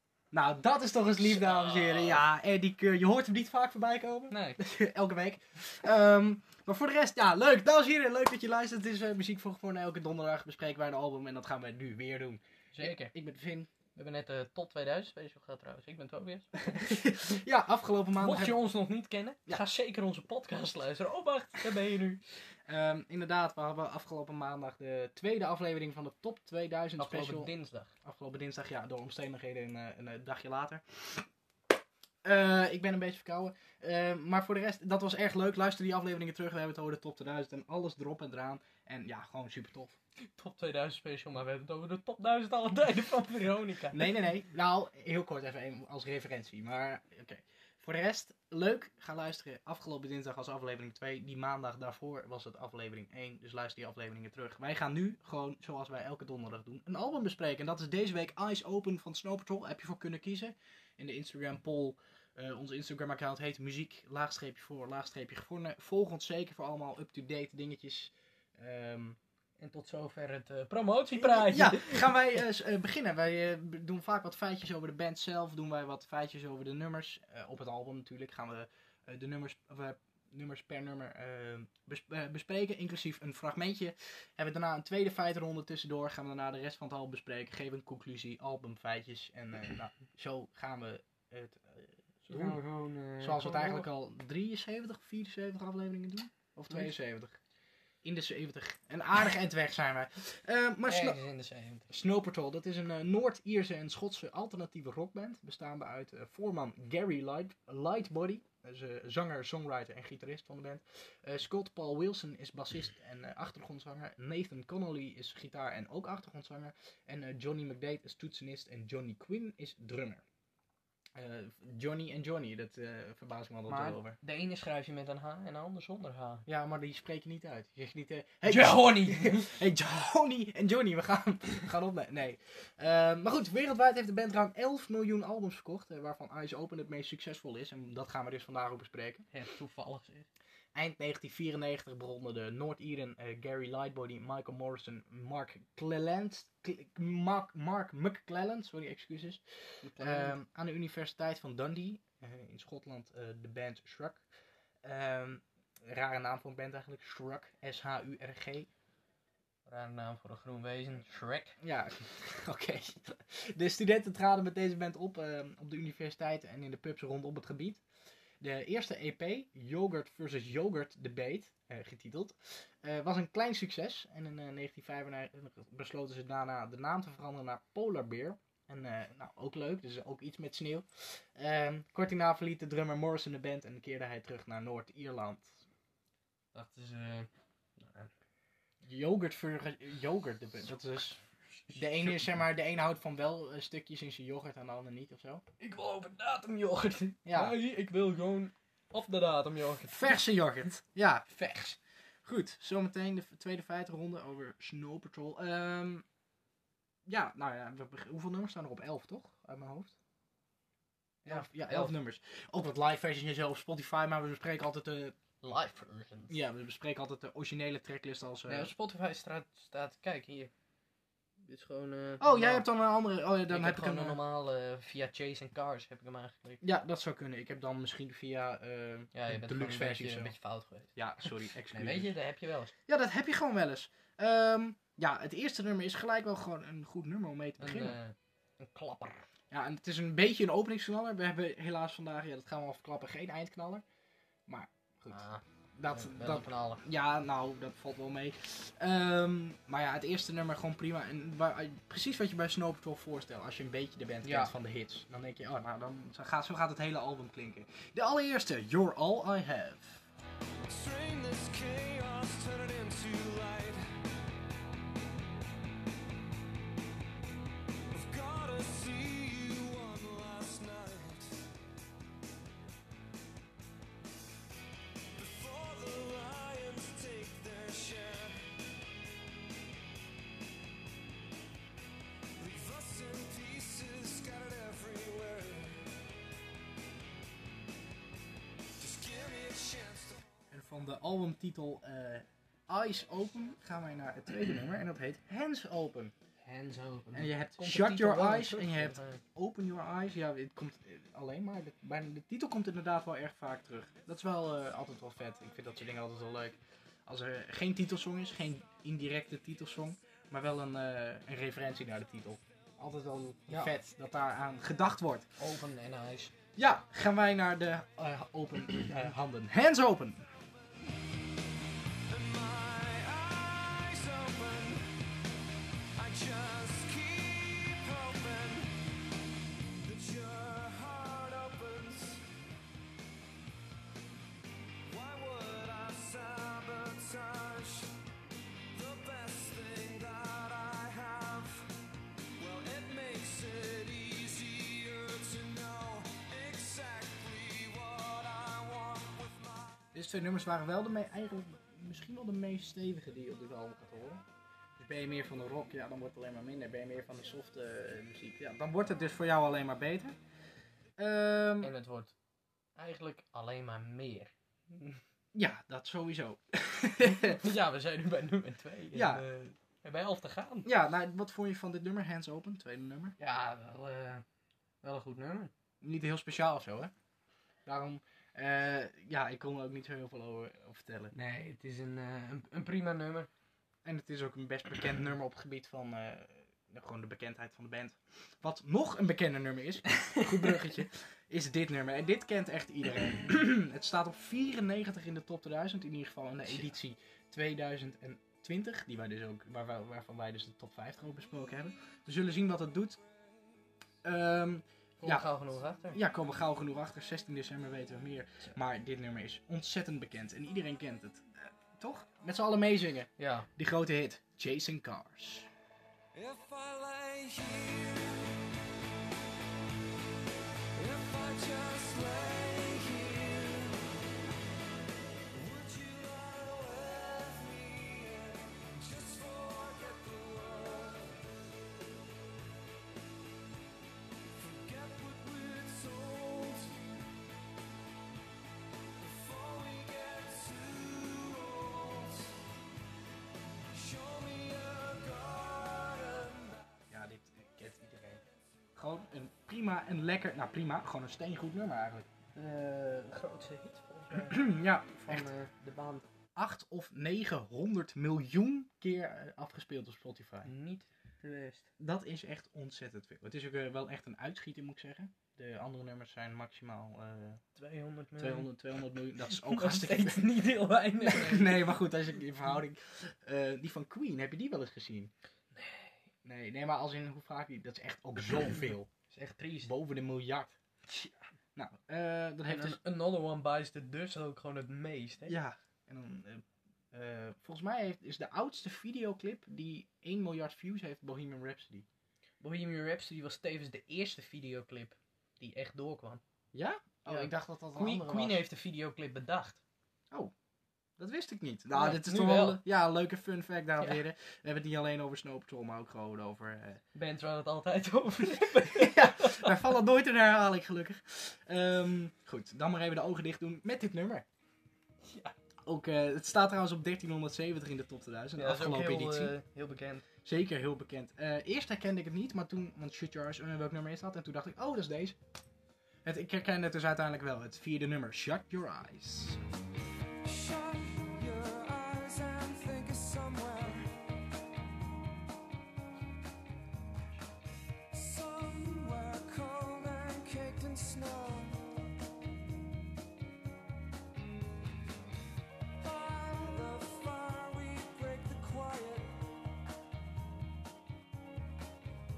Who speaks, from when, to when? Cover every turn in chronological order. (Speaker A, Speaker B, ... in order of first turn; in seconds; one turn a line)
Speaker A: 0.3-13.7
Speaker B: 1.2-2.2
Speaker B: 4.3-4.6
Speaker B: 12.7-13.1
Speaker B: 13.9-16.9
Speaker A: 16.6-18.6
Speaker B: 18.2-22.2
Speaker A: 22.6-27.5
Speaker B: 27.0-27.9
Speaker A: 28.0-31.3
Speaker A: 32.2-40.0
Speaker B: 40.4-44.1
Speaker A: 43.9-69.2
Speaker B: 69.6-72.2
Speaker A: 71.1-92.6
Speaker B: 92.3-93.9
Speaker A: 93.2-97.4
Speaker A: 98.0-101.2
Speaker B: 100.8-101.9
Speaker A: 101.9-120.2
Speaker A: 121.1-124.2
Speaker B: 123.7-126.4
Speaker A: 126.5-139.3
Speaker B: 128.4-129.5
Speaker B: 139.3-140.3
Speaker A: 140.7-154.2
Speaker B: 149.8-150.4
Speaker A: 154.8-158.7
Speaker B: 159.7-161.6
Speaker A: 161.6-167.8
Speaker A: 168.4-185.6
Speaker B: 186.5-188.1
Speaker A: 188.8-191.2
Speaker B: 191.7-192.2
Speaker A: 191.7-195.4
Speaker B: 195.6-200.2
Speaker A: 197.2-197.6
Speaker A: 199.9-201.3
Speaker B: 201.3-201.8
Speaker A: 202.2-206.0
Speaker A: 207.1-209.9
Speaker A: 211.2-215.2
Speaker B: 211.2-211.9
Speaker B: 215.4-216.4
Speaker A: 216.3-218.7
Speaker B: 218.5-220.5
Speaker B: 221.4-222.7
Speaker A: 222.2-224.2
Speaker B: 223.5-226.6
Speaker A: 226.6-230.3
Speaker B: 229.1-232.7
Speaker A: 230.9-232.1
Speaker A: 232.9-238.0
Speaker B: 237.6-239.2
Speaker A: 239.5-243.8
Speaker A: 244.5-245.2
Speaker B: 245.1-246.8
Speaker A: 245.7-260.0
Speaker B: 254.2-254.5
Speaker C: 260.6-264.0
Speaker C: 267.9-271.4
Speaker C: 275.1-278.5
Speaker C: 282.4-285.9
Speaker C: 288.8-290.2
Speaker A: 290.5-296.1
Speaker B: 296.4-299.2
Speaker A: 297.1-315.3
Speaker B: 313.5-313.7
Speaker B: 315.4-316.3
Speaker A: 316.6-320.3
Speaker C: 322.1-324.9
Speaker C: 325.9-328.9
Speaker C: 329.8-332.3
Speaker C: 334.9-337.9
Speaker C: 338.7-341.7
Speaker C: 342.4-349.8
Speaker A: 349.9-354.2
Speaker A: 354.8-360.2
Speaker A: 361.0-361.7
Speaker B: 361.6-362.1
Speaker B: 362.8-365.0
Speaker A: 365.3-367.4
Speaker B: 367.0-370.7
Speaker A: 368.9-369.2
Speaker A: 370.6-373.1
Speaker B: 373.2-374.2
Speaker B: 374.8-375.5
Speaker A: 375.8-376.9
Speaker A: 377.6-381.1
Speaker B: 381.1-383.3
Speaker A: 383.8-403.0
Speaker B: 390.0-390.2
Speaker A: 404.0-405.3
Speaker B: 405.0-406.0
Speaker A: 405.9-415.5
Speaker B: 413.2-413.5
Speaker C: 416.1-418.4
Speaker C: 420.7-423.9
Speaker C: 425.3-431.3
Speaker C: 434.3-436.9
Speaker C: 439.0-442.4
Speaker C: 443.7-446.8
Speaker A: 446.9-448.2
Speaker A: 448.7-452.1
Speaker B: 452.3-456.0
Speaker A: 454.1-455.3
Speaker A: 456.3-460.5
Speaker B: 460.4-461.7
Speaker A: 461.8-467.4
Speaker B: 467.6-468.5
Speaker A: 468.2-470.3
Speaker B: 469.2-471.7
Speaker A: 471.0-475.1
Speaker B: 475.5-476.1
Speaker A: 476.2-478.9
Speaker B: 479.1-479.7
Speaker A: 479.6-480.6
Speaker A: 481.5-482.8
Speaker B: 482.5-485.4
Speaker A: 485.3-491.9
Speaker B: 492.4-496.2
Speaker A: 496.5-498.4
Speaker B: 497.1-499.6
Speaker A: 501.0-506.8
Speaker B: 501.7-502.6
Speaker B: 506.9-509.5
Speaker A: 508.6-514.2
Speaker B: 515.0-515.3
Speaker A: 515.6-519.4
Speaker B: 518.4-520.0
Speaker A: 520.2-525.2
Speaker A: 526.0-529.4
Speaker C: 530.2-533.9
Speaker C: 537.9-541.7
Speaker C: 545.8-549.3